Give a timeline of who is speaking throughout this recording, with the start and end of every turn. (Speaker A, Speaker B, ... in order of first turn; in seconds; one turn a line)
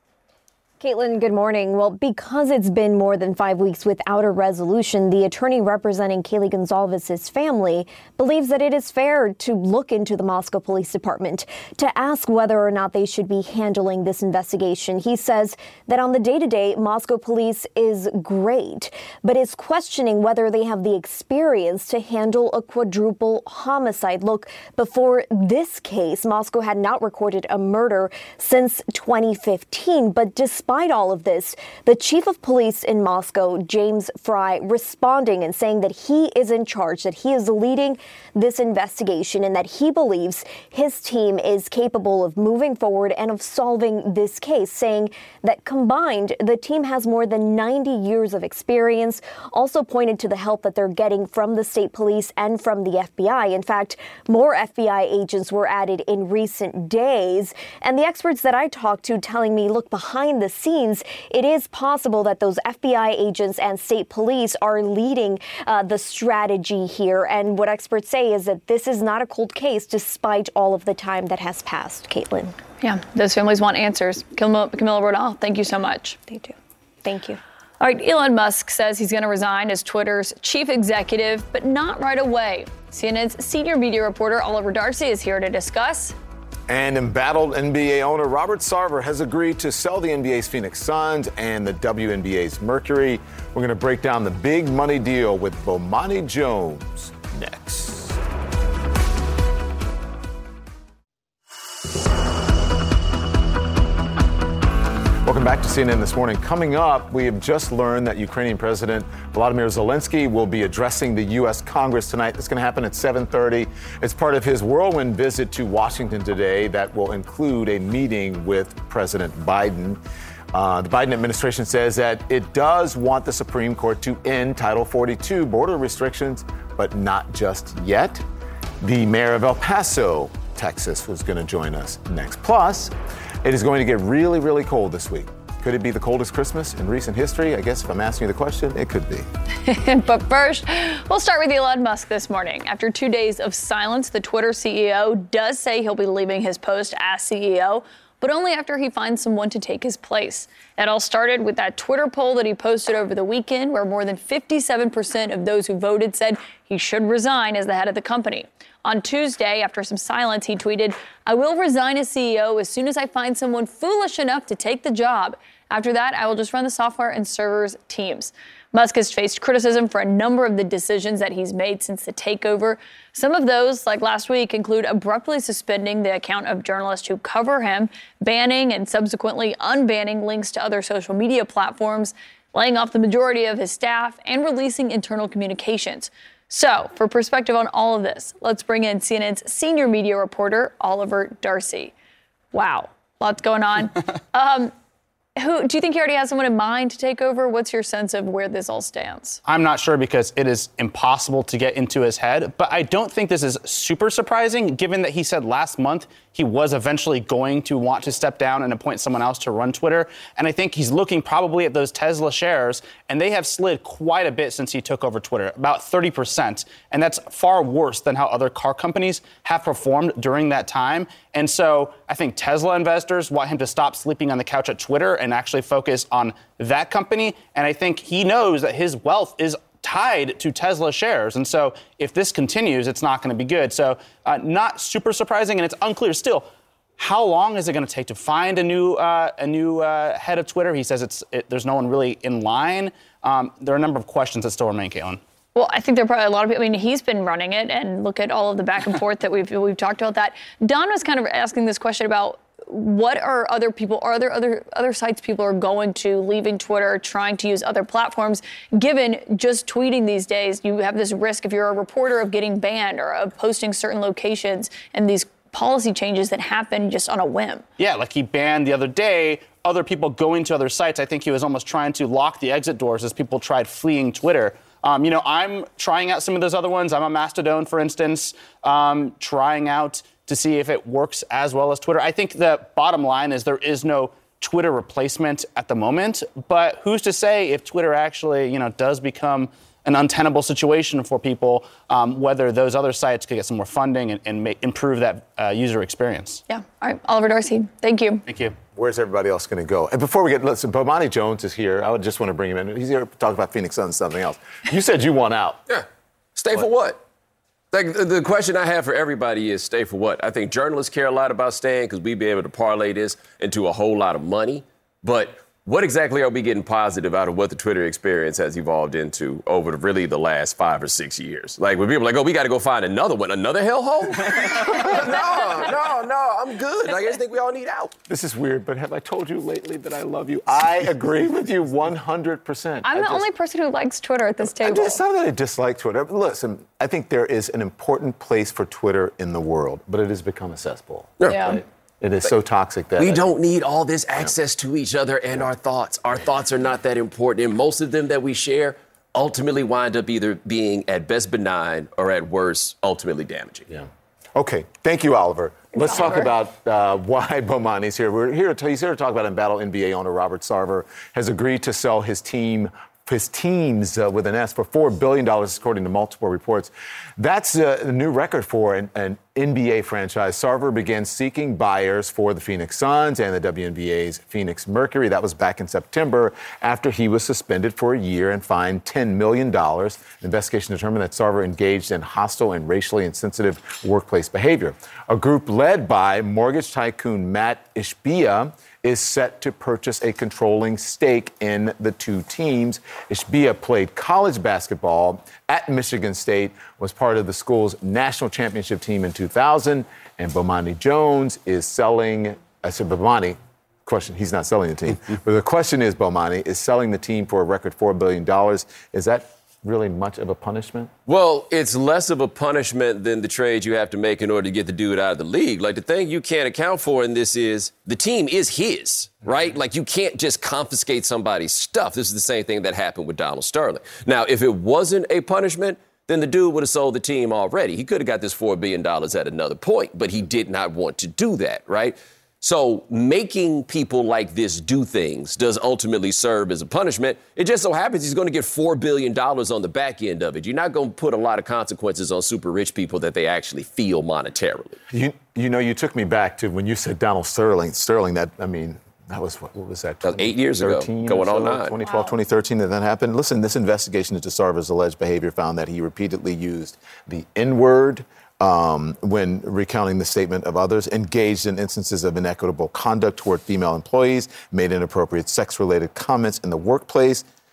Speaker A: 0.8-72.5
Speaker B: 72.8-76.2
Speaker A: 77.0-77.4
Speaker B: 77.8-86.1
Speaker C: 86.7-98.2
Speaker C: 105.2-120.0
Speaker C: 120.5-128.2
Speaker C: 128.8-139.3
Speaker B: 139.7-191.9
Speaker B: 192.5-194.7
Speaker B: 195.4-199.4
Speaker D: 199.5-236.5
Speaker D: 237.0-245.2
Speaker B: 245.5-267.6
Speaker D: 267.8-296.4
Speaker B: 296.5-298.2
Speaker D: 298.3-298.5
Speaker C: 298.7-305.6
Speaker E: 306.4-307.0
Speaker E: 307.7-327.9
Speaker C: 324.6-326.0
Speaker C: 328.1-333.2
Speaker B: 332.8-335.0
Speaker C: 334.6-343.2
Speaker E: 341.2-341.5
Speaker B: 341.3-341.6
Speaker E: 343.0-353.6
Speaker C: 353.7-410.9
Speaker B: 355.7-356.3
Speaker E: 411.1-444.8
Speaker C: 444.9-467.2
Speaker E: 450.0-451.7
Speaker B: 451.8-452.1